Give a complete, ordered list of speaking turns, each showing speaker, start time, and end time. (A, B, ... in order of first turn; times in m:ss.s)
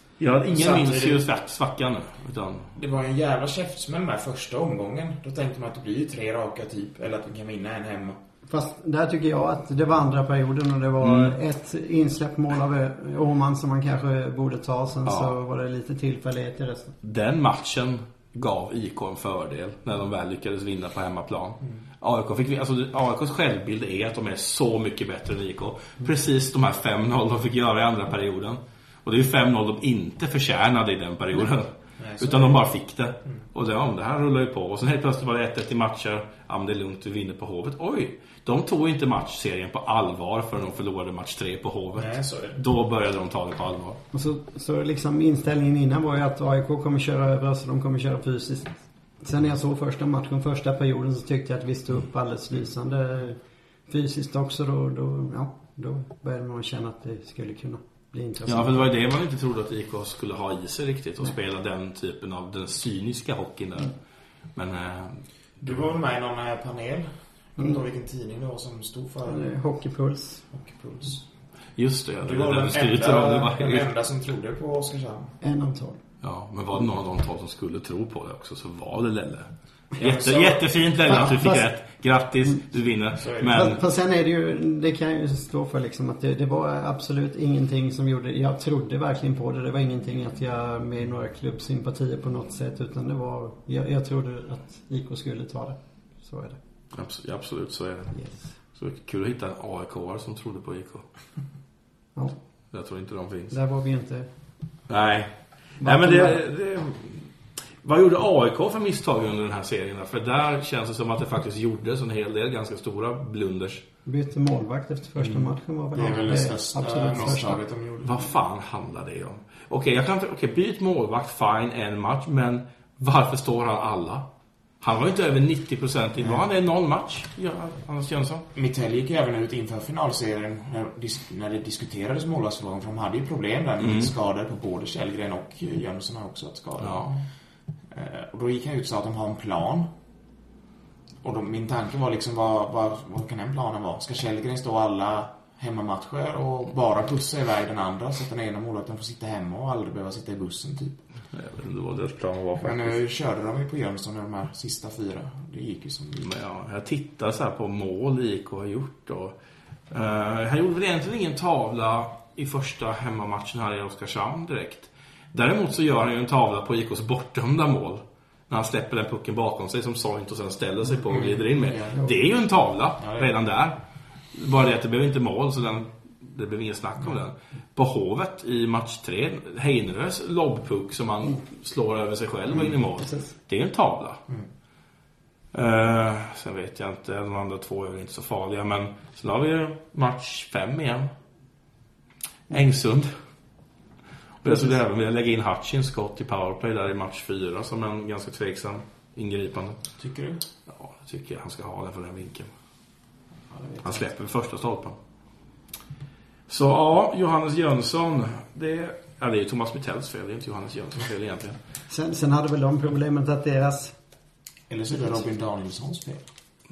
0:00.2-0:02.7 A
0:00.5-0:01.2 B
0:02.7-0:08.2 B
0:08.5-0:16.9 C
0:11.0-0:11.4 A
0:15.0-0:15.3 A
0:17.0-0:44.0 A
0:32.0-0:32.7 B
0:42.0-0:42.6 B
0:44.1-0:58.9 C
0:58.4-1:03.9 A
1:04.5-1:05.8 A
1:05.6-1:09.5 B
1:07.6-1:07.8 C
1:09.3-1:10.4 C
1:10.5-1:11.2 B
1:11.8-1:13.9 A
1:12.2-1:15.4 B
1:15.4-1:16.0 C
1:16.2-1:23.8 A
1:20.0-1:21.4 B
1:21.1-1:21.6 C
1:23.2-1:23.6 B
1:23.4-1:36.6 C
1:36.9-1:41.0 A
1:42.7-1:43.6 A
1:43.5-1:44.3 C
1:44.9-1:47.3 A
1:45.8-1:46.4 C
1:47.8-1:53.8 A
1:54.0-1:57.6 C
1:55.2-1:58.3 B
1:58.0-2:04.3 A
2:04.8-2:08.4 A
2:08.5-2:17.1 B
2:13.8-2:14.1 A
2:16.8-2:17.2 A
2:17.9-2:19.9 B
2:21.2-2:31.0 B
2:31.3-2:33.0 A
2:32.6-2:36.3 B
2:36.2-2:39.3 A
2:39.9-2:53.8 A
2:50.9-2:52.1 B
2:53.0-2:53.3 B
2:54.3-3:04.2 A
3:03.0-3:03.3 C
3:05.5-3:11.1 A
3:12.5-3:13.1 A
3:14.4-3:19.8 A
3:20.0-3:20.4 B
3:20.7-3:22.5 A
3:23.8-3:25.0 A
3:26.5-3:31.6 A
3:31.9-3:34.0 C
3:34.7-3:36.2 B